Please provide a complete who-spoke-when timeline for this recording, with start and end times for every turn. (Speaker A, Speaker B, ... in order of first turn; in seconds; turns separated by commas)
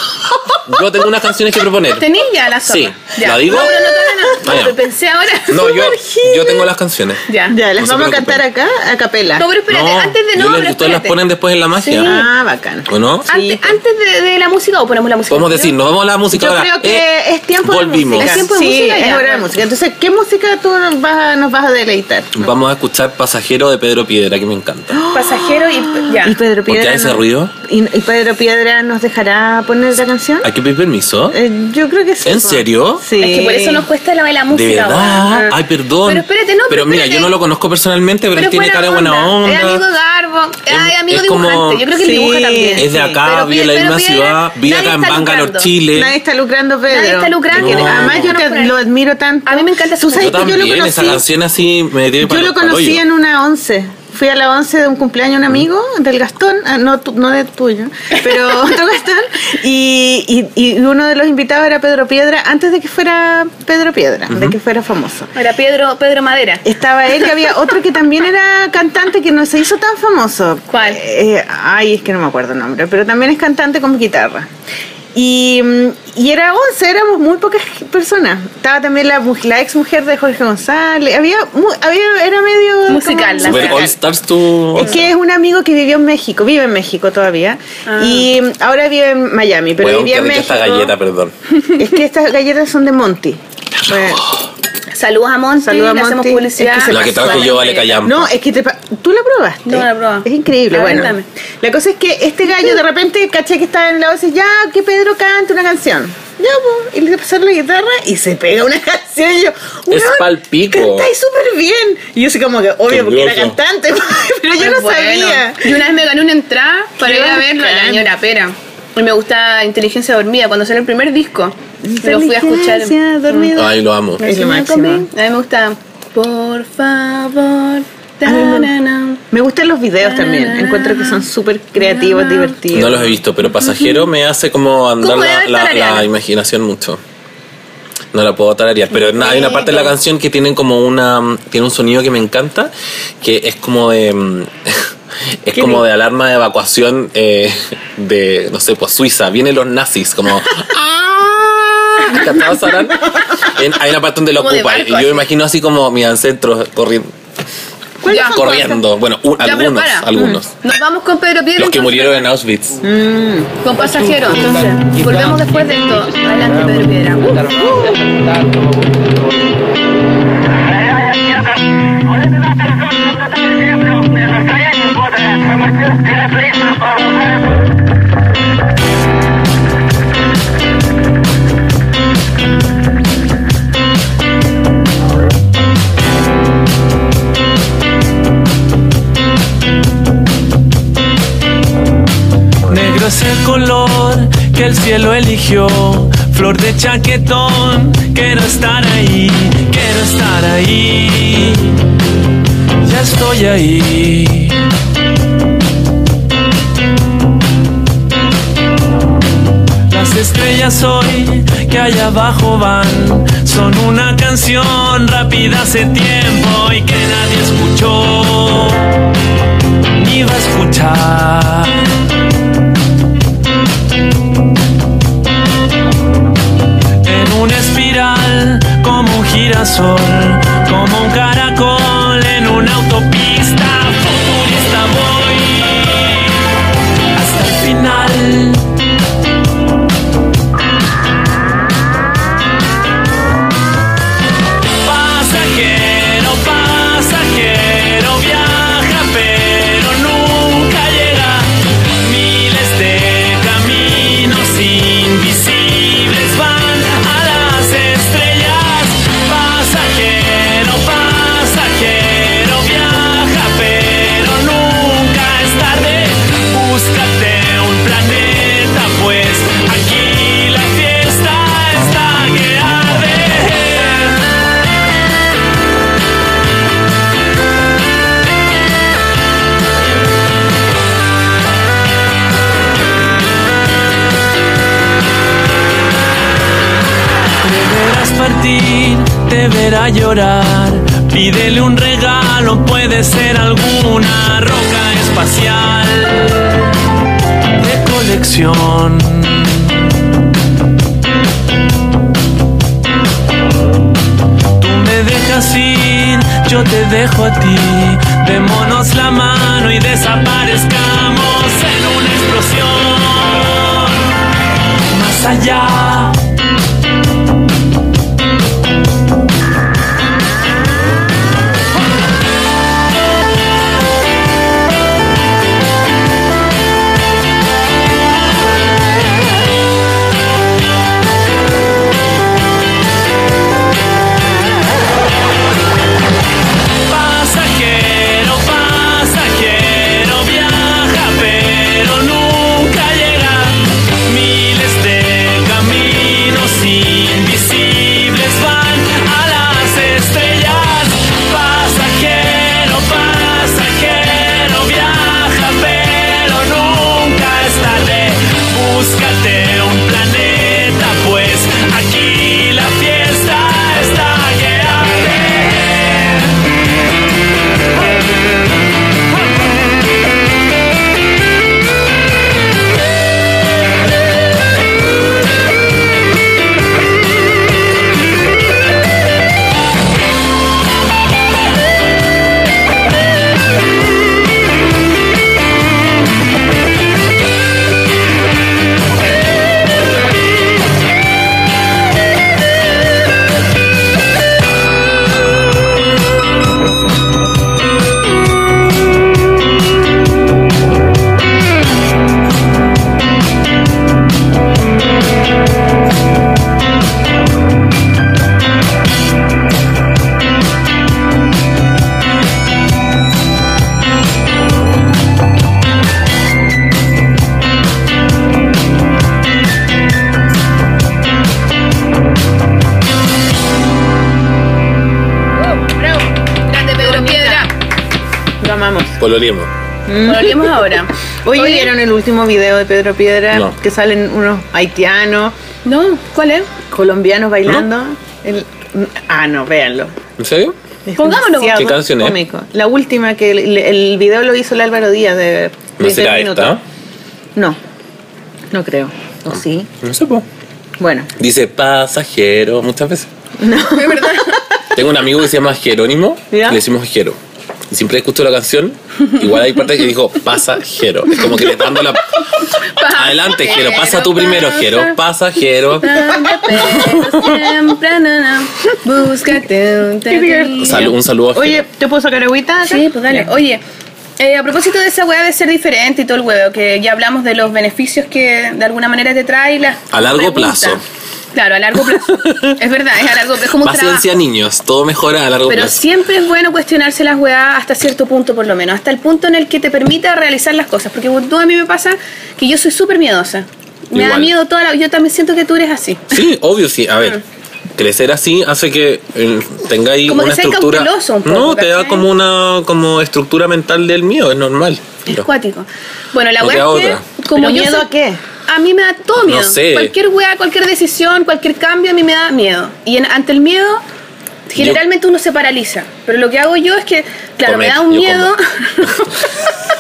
Speaker A: 0.2-0.6, Speaker B: 0.6-2.0, Speaker C: 2.0-5.7, Speaker B: 2.6-4.8, Speaker A: 3.5-4.3, Speaker B: 5.5-7.2, Speaker A: 5.5-6.7, Speaker C: 7.3-7.6, Speaker A: 7.5-9.5, Speaker B: 7.8-8.4, Speaker C: 9.4-11.2, Speaker B: 9.7-12.2, Speaker C: 11.7-12.2, Speaker A: 12.0-13.8, Speaker B: 12.9-13.3, Speaker C: 13.3-15.7, Speaker B: 15.3-17.1, Speaker A: 16.3-22.4, Speaker B: 17.6-18.5, Speaker C: 18.1-19.5, Speaker B: 22.3-25.0, Speaker A: 24.9-30.5, Speaker C: 25.1-26.4, Speaker B: 26.6-27.5, Speaker B: 30.4-31.4, Speaker A: 31.3-33.9, Speaker B: 32.2-33.0, Speaker C: 33.2-35.5, Speaker B: 34.5-39.8, Speaker C: 36.0-37.3, Speaker C: 38.3-45.7, Speaker B: 40.7-41.9, Speaker A: 42.0-43.2, Speaker B: 42.8-46.1, Speaker A: 45.9-51.2, Speaker C: 46.9-48.7, Speaker B: 47.5-48.4, Speaker C: 49.5-50.4, Speaker B: 50.1-53.0, Speaker A: 52.2-65.3, Speaker B: 64.3-64.6, Speaker C: 65.3-66.6, Speaker A: 66.6-74.5, Speaker C: 67.2-67.4, Speaker C: 70.7-71.0, Speaker A: 75.1-83.9, Speaker C: 82.9-83.9, Speaker B: 83.4-85.0, Speaker A: 84.7-90.9, Speaker C: 87.8-88.3, Speaker B: 89.8-91.3, Speaker A: 91.8-94.3, Speaker C: 94.9-98.0, Speaker A: 95.6-115.8, Speaker B: 96.9-98.3, Speaker C: 99.7-101.2, Speaker B: 109.9-111.1, Speaker B: 112.9-113.6, Speaker C: 114.6-123.5, Speaker A: 117.0-118.1, Speaker A: 121.8-125.1, Speaker B: 123.5-124.2, Speaker C: 124.2-129.2, Speaker A: 128.2-128.7, Speaker A: 129.3-133.2, Speaker C: 130.0-132.6, Speaker B: 132.7-137.0, Speaker C: 133.7-134.0, Speaker C: 135.0-136.1, Speaker B: 138.1-144.9, Speaker C: 138.9-139.9, Speaker B: 145.4-151.1, Speaker A: 145.5-145.8, Speaker A: 150.7-153.5, Speaker B: 151.9-157.1, Speaker C: 154.3-155.2, Speaker A: 158.0-158.8, Speaker C: 158.1-158.5, Speaker B: 158.3-160.6, Speaker C: 159.4-160.1, Speaker A: 160.1-160.4, Speaker C: 160.6-162.2, Speaker B: 161.6-162.8, Speaker A: 162.8-163.5, Speaker C: 163.6-167.6, Speaker A: 167.3-168.2, Speaker D: 192.7-201.8, Speaker D: 202.8-204.6, Speaker D: 209.9-219.0, Speaker D: 219.9-221.9, Speaker D: 227.0-236.4, Speaker D: 237.1-238.7, Speaker D: 244.8-274.2, Speaker D: 287.4-296.7, Speaker D: 297.6-300.0, Speaker D: 304.6-314.1, Speaker D: 314.9-316.2, Speaker D: 336.9-366.4, Speaker A: 425.4-426.1, Speaker C: 426.4-427.5, Speaker A: 426.8-427.5, Speaker A: 428.4-429.0, Speaker B: 429.0-429.5, Speaker A: 429.9-435.3, Speaker C: 430.0-431.7, Speaker C: 435.6-436.5, Speaker A: 436.7-439.9, Speaker B: 440.2-440.5, Speaker A: 440.9-446.6, Speaker C: 441.0-441.8, Speaker B: 441.5-442.2, Speaker B: 445.8-446.6, Speaker A: 448.5-449.7, Speaker B: 449.3-450.2, Speaker A: 450.8-451.1, Speaker B: 451.2-453.1, Speaker A: 453.4-454.4, Speaker C: 453.6-454.4, Speaker B: 454.7-457.2, Speaker A: 456.3-456.6, Speaker B: 457.7-462.2, Speaker A: 461.3-461.6, Speaker C: 462.6-464.9, Speaker B: 462.8-467.4, Speaker C: 465.8-470.9, Speaker A: 470.1-473.3, Speaker B: 470.6-471.7, Speaker C: 472.6-473.6, Speaker C: 474.2-480.8, Speaker B: 479.9-480.8, Speaker C: 481.3-484.1, Speaker B: 481.9-482.6, Speaker B: 483.6-485.8, Speaker C: 485.5-496.1, Speaker B: 493.9-494.3, Speaker B: 496.1-497.2, Speaker B: 497.8-505.2, Speaker C: 500.1-502.1, Speaker C: 505.1-507.9, Speaker B: 506.4-507.0, Speaker A: 507.3-508.2, Speaker C: 508.5-513.8, Speaker B: 509.2-509.9, Speaker C: 514.5-519.4, Speaker B: 517.4-519.1